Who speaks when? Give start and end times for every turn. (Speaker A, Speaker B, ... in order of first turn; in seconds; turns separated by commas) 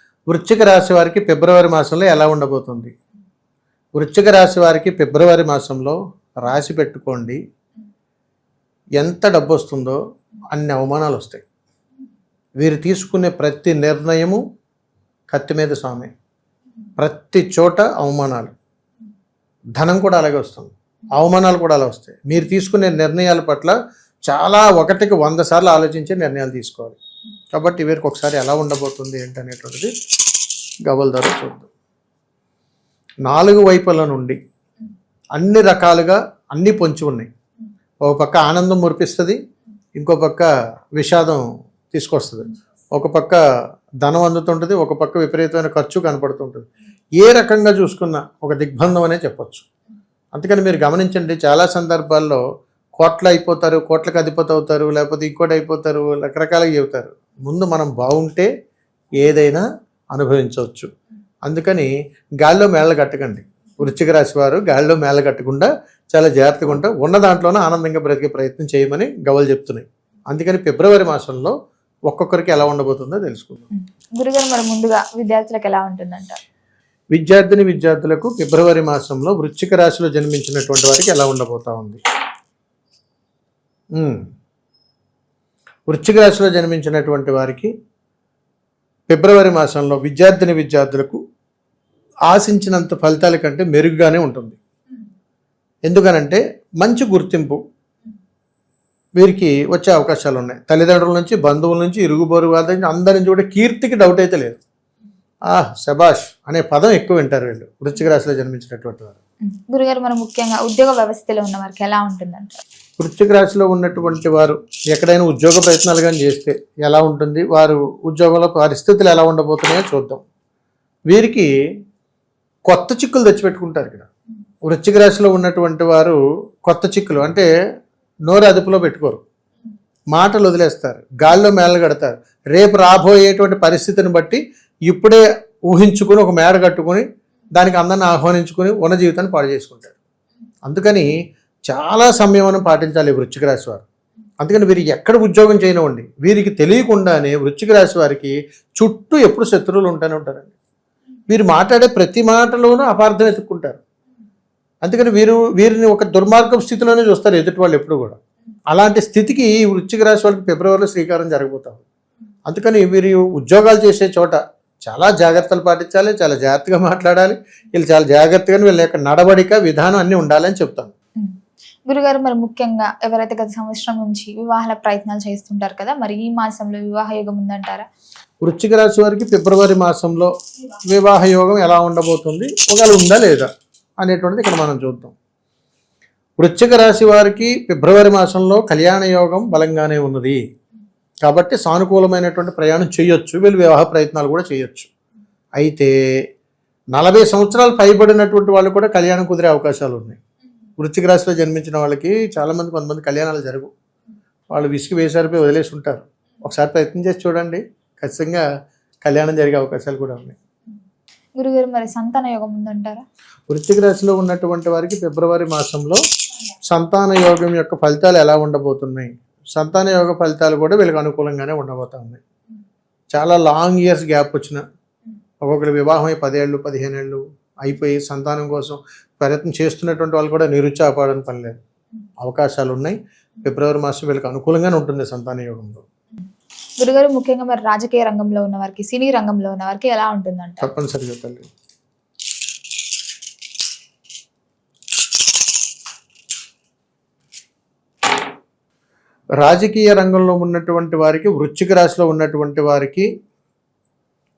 Speaker A: 0.3-2.9, Speaker A: 4.0-7.4, Speaker A: 9.0-10.0, Speaker A: 10.5-11.4, Speaker A: 12.6-14.4, Speaker A: 15.3-16.1, Speaker A: 17.0-18.5, Speaker A: 19.8-23.7, Speaker A: 24.3-27.0, Speaker A: 27.5-29.9, Speaker A: 30.9-31.7, Speaker A: 33.2-34.4, Speaker A: 35.4-37.3, Speaker A: 38.0-39.4, Speaker A: 40.0-43.4, Speaker A: 44.0-46.6, Speaker A: 47.2-49.6, Speaker A: 50.3-52.4, Speaker A: 53.0-58.5, Speaker A: 59.2-60.9, Speaker A: 61.5-61.9, Speaker A: 62.4-71.5, Speaker A: 72.1-73.7, Speaker B: 73.7-76.4, Speaker A: 77.1-82.0, Speaker A: 83.9-84.2, Speaker A: 85.9-87.7, Speaker A: 89.1-91.2, Speaker A: 92.3-94.6, Speaker A: 95.9-97.6, Speaker A: 99.2-104.6, Speaker A: 105.5-109.2, Speaker B: 109.5-112.6, Speaker A: 113.0-120.2, Speaker A: 121.1-121.5, Speaker A: 122.7-124.1, Speaker A: 124.7-127.5, Speaker A: 128.3-129.2, Speaker A: 130.1-137.0, Speaker A: 137.6-139.9, Speaker A: 140.7-141.1, Speaker A: 141.7-143.8, Speaker A: 144.4-150.5, Speaker A: 151.3-153.8, Speaker A: 154.8-158.2, Speaker A: 158.7-161.8, Speaker A: 162.5-170.9, Speaker B: 171.9-177.8, Speaker A: 178.4-180.3, Speaker A: 180.9-183.5, Speaker A: 184.0-185.1, Speaker A: 186.4-190.4, Speaker A: 191.2-194.9, Speaker A: 195.6-195.9, Speaker A: 196.9-200.2, Speaker A: 200.8-203.7, Speaker A: 204.5-208.4, Speaker A: 209.0-210.3, Speaker B: 211.4-213.0, Speaker A: 213.5-216.0, Speaker A: 216.7-222.2, Speaker A: 223.1-224.6, Speaker A: 225.4-231.6, Speaker A: 232.2-235.8, Speaker B: 236.8-240.7, Speaker A: 240.6-241.5, Speaker A: 249.3-253.1